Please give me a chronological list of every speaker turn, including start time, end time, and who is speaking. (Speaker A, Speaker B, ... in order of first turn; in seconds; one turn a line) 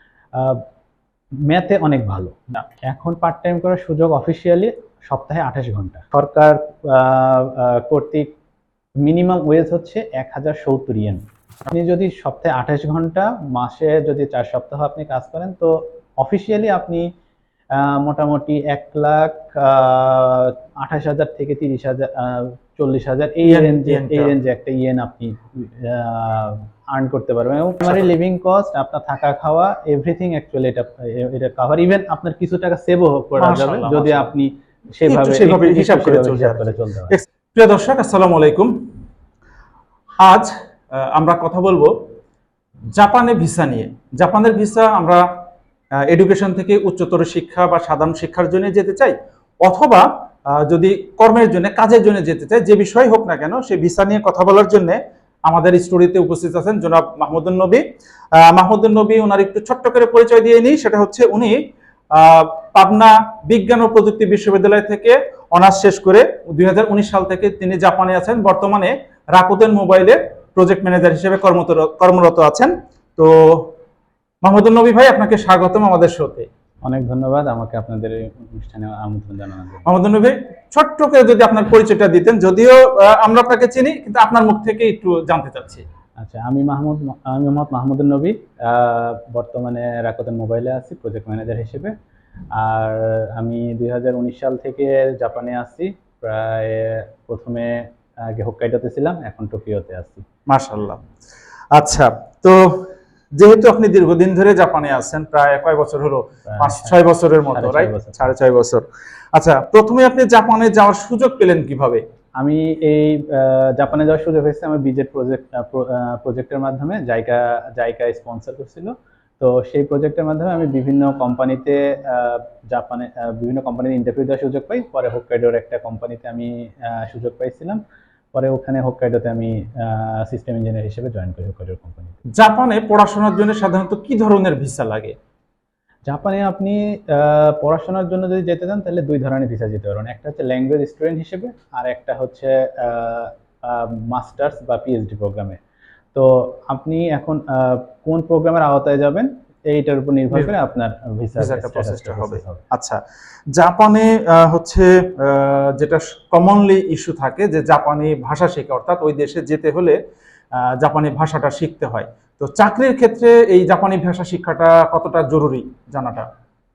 Speaker A: 0.3-0.7
Speaker A: 1.5-8.3
Speaker A: 9.0-17.1
Speaker A: 17.8-37.2
Speaker B: 23.4-24.3
Speaker B: 27.8-28.1
Speaker B: 33.4-34.3
Speaker B: 35.1-38.7
Speaker B: 40.2-41.9
Speaker B: 43.0-45.2
Speaker B: 46.1-57.8
Speaker B: 58.4-61.6
Speaker B: 62.1-73.7
Speaker B: 74.4-76.5
Speaker A: 76.8-79.9
Speaker B: 79.8-85.9
Speaker A: 86.2-91.9
Speaker A: 92.5-100.2
Speaker B: 100.5-101.0
Speaker B: 101.7-112.0
Speaker A: 106.5-108.3
Speaker A: 112.4-127.8
Speaker A: 128.3-132.2
Speaker B: 132.3-135.2
Speaker A: 136.1-145.6
Speaker A: 146.1-152.6
Speaker B: 151.4-153.0
Speaker B: 153.5-160.0
Speaker B: 160.6-166.3